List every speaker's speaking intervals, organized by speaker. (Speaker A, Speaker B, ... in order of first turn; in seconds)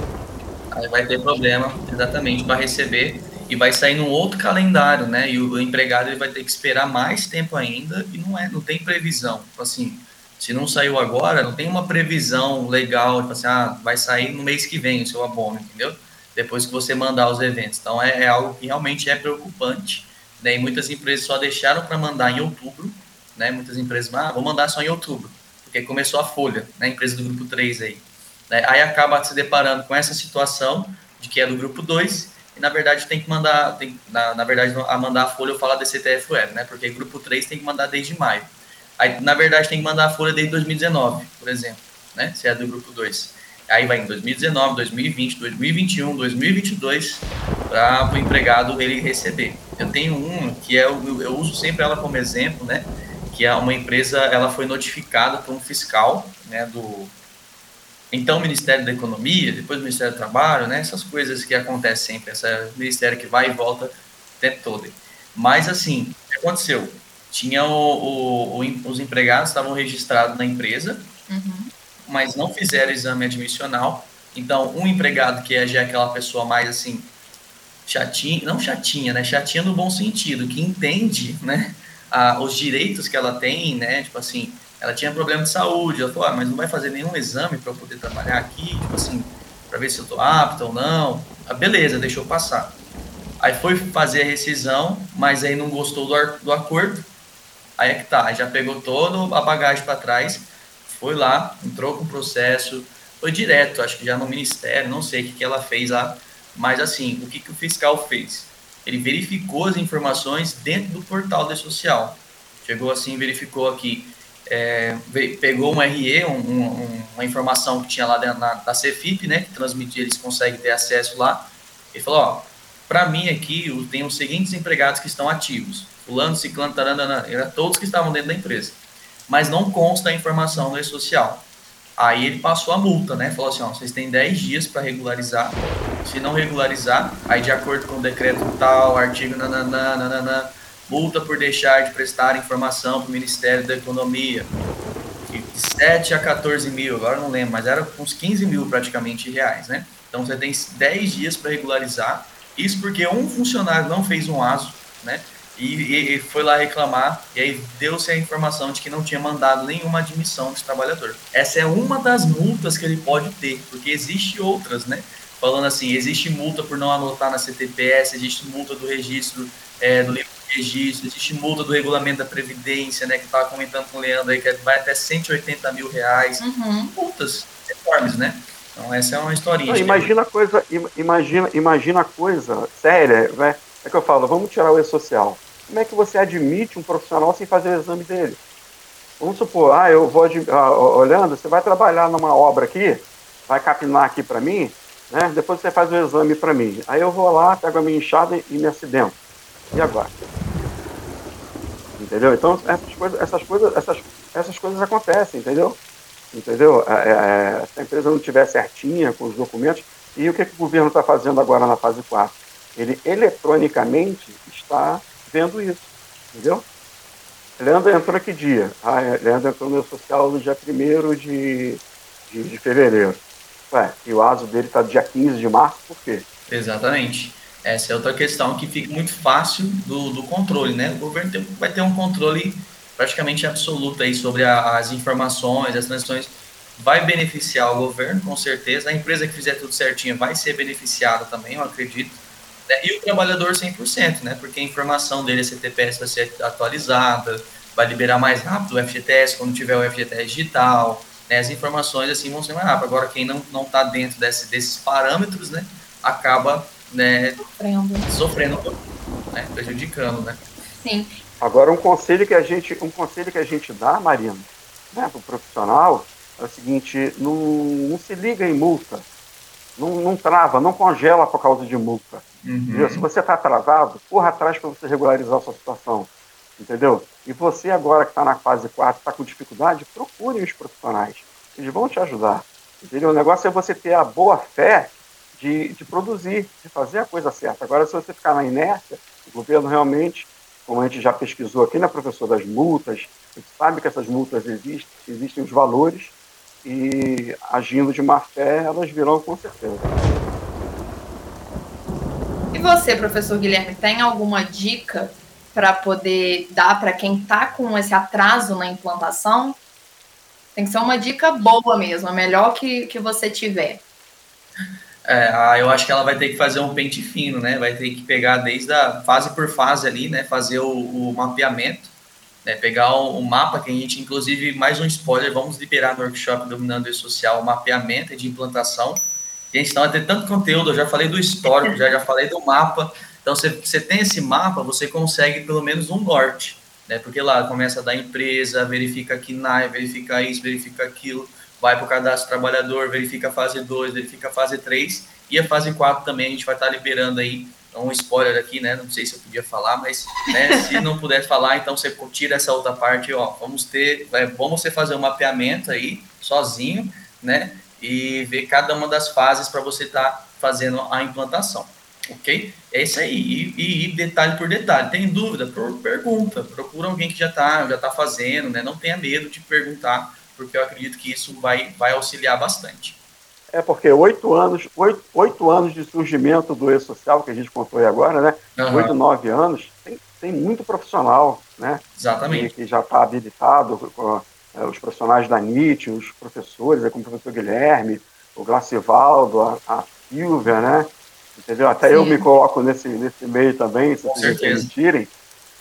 Speaker A: 0.7-57.1, 58.1-71.1, 72.1-77.1, 77.9-92.8, 93.4-97.1, 97.8-144.5, 145.3-176.4, 177.0-180.1, 226.5-257.4, 258.1-258.8, 259.3-260.4, 272.4-273.1, 315.1-321.9, 322.4-373.0, 378.6-378.9, 382.0-382.5, 394.1-394.7
Speaker B: 71.3-71.7, 176.4-176.9, 257.4-258.1, 260.8-261.2, 302.5-309.6, 310.6-313.8, 350.4-350.8, 391.8-392.3
Speaker C: 179.7-188.4, 189.2-199.2, 199.7-200.1, 202.0-205.8, 206.3-216.7, 217.6-226.3, 261.4-269.1, 269.8-299.9, 373.5-395.1